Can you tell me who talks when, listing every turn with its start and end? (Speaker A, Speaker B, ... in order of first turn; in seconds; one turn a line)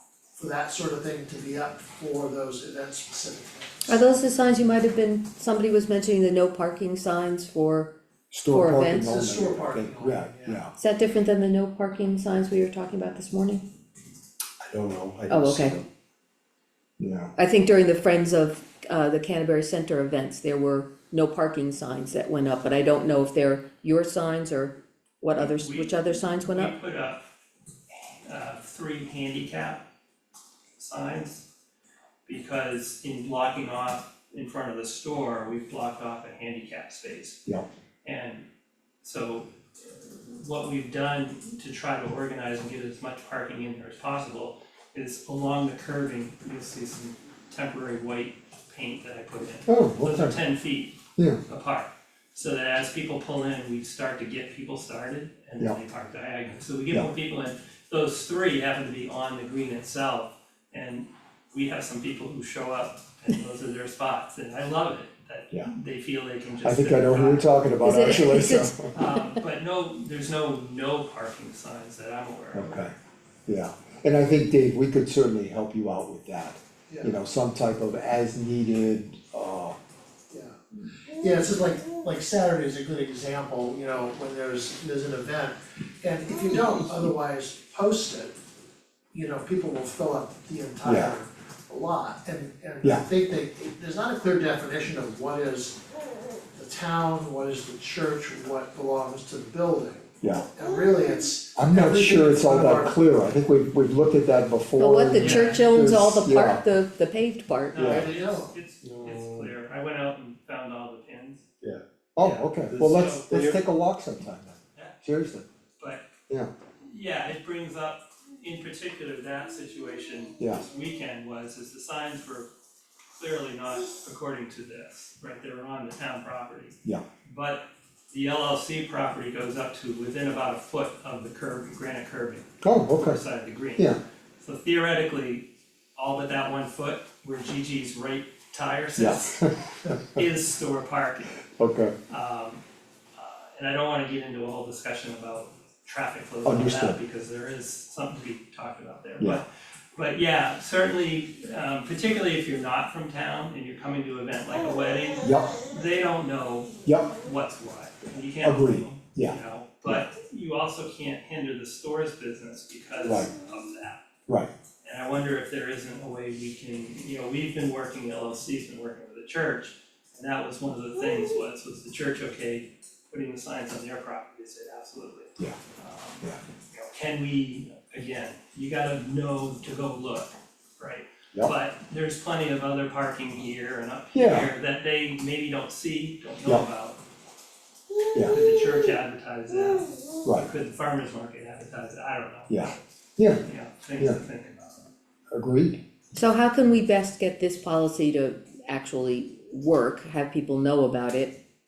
Speaker A: 0.3-3.8
Speaker B: 3.9-7.9
Speaker C: 8.3-10.7
Speaker B: 8.5-9.1
Speaker A: 9.0-10.6
Speaker B: 10.8-13.6
Speaker C: 14.6-15.8
Speaker B: 15.3-15.8
Speaker C: 17.0-17.3
Speaker B: 17.4-26.7
Speaker D: 25.4-27.2
Speaker D: 28.2-29.8
Speaker D: 30.8-31.4
Speaker D: 32.2-37.4
Speaker D: 38.0-38.4
Speaker D: 39.0-72.7
Speaker C: 49.6-50.4
Speaker C: 66.6-68.8
Speaker B: 67.8-68.9
Speaker C: 72.5-72.9
Speaker C: 73.5-79.8
Speaker A: 76.9-77.1
Speaker A: 80.3-88.3
Speaker A: 89.1-95.8
Speaker C: 90.8-91.2
Speaker A: 96.5-103.0
Speaker C: 101.5-106.6
Speaker B: 104.8-108.0
Speaker D: 105.2-105.7
Speaker D: 107.7-111.5
Speaker C: 107.8-108.1
Speaker A: 107.8-108.5
Speaker C: 108.9-109.5
Speaker C: 111.6-115.5
Speaker D: 112.2-113.6
Speaker D: 115.8-116.0
Speaker D: 116.8-122.5
Speaker D: 123.2-141.4
Speaker C: 132.6-133.2
Speaker C: 138.9-140.2
Speaker C: 141.6-141.9
Speaker D: 142.1-142.6
Speaker D: 143.1-164.0
Speaker C: 146.4-147.0
Speaker C: 155.2-155.6
Speaker C: 156.8-157.1
Speaker C: 158.4-160.0
Speaker C: 163.0-163.3
Speaker D: 164.8-187.0
Speaker C: 184.1-184.5
Speaker D: 188.1-192.7
Speaker C: 192.5-193.4
Speaker D: 193.4-194.9
Speaker C: 195.3-195.8
Speaker B: 196.1-201.4